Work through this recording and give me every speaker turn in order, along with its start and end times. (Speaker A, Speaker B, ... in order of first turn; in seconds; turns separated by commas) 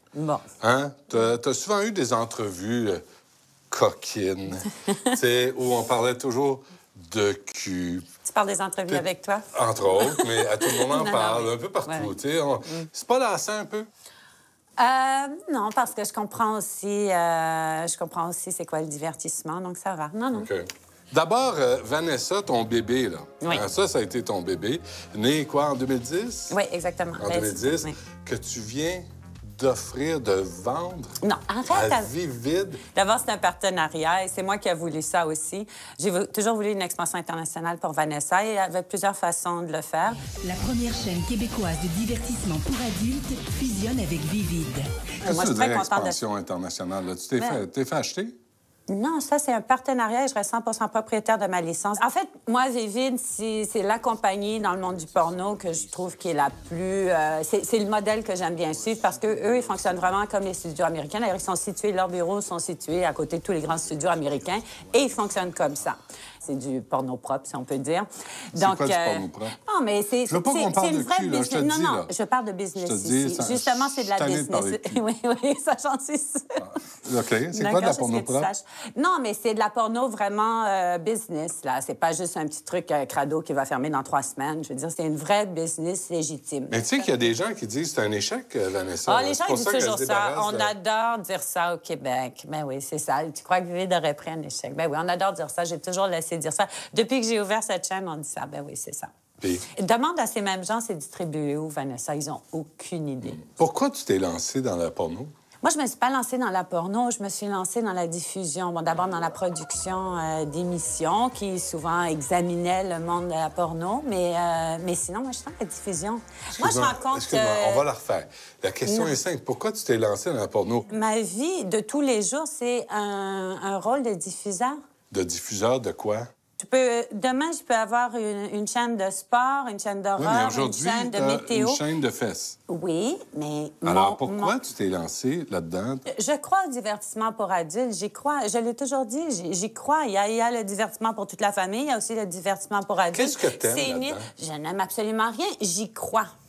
Speaker A: 0.1-0.5, Speaker B: 0.6-3.0, Speaker B: 3.7-8.1, Speaker A: 8.2-12.1, Speaker B: 8.9-13.9, Speaker A: 14.8-20.5, Speaker B: 20.3-26.6, Speaker A: 23.4-23.7, Speaker A: 26.5-27.9, Speaker B: 27.2-31.1, Speaker A: 31.2-32.1, Speaker B: 31.7-32.8, Speaker A: 32.9-40.3, Speaker C: 40.4-44.9, Speaker B: 45.2-48.4, Speaker A: 45.2-46.2, Speaker A: 48.9-76.6, Speaker B: 68.5-69.6, Speaker B: 70.3-72.1, Speaker B: 72.8-75.0, Speaker B: 76.6-78.5, Speaker A: 77.5-87.3, Speaker B: 86.7-90.7, Speaker A: 89.0-99.1, Speaker B: 99.4-99.7, Speaker A: 99.7-103.4, Speaker B: 103.4-105.3, Speaker A: 105.6-117.8, Speaker B: 116.6-120.9, Speaker A: 118.9-119.2, Speaker A: 120.9-124.8, Speaker B: 125.1-126.3, Speaker A: 126.6-131.8, Speaker B: 130.2-132.6, Speaker A: 132.7-134.6, Speaker B: 133.8-136.1, Speaker A: 136.1-146.3, Speaker B: 143.1-144.3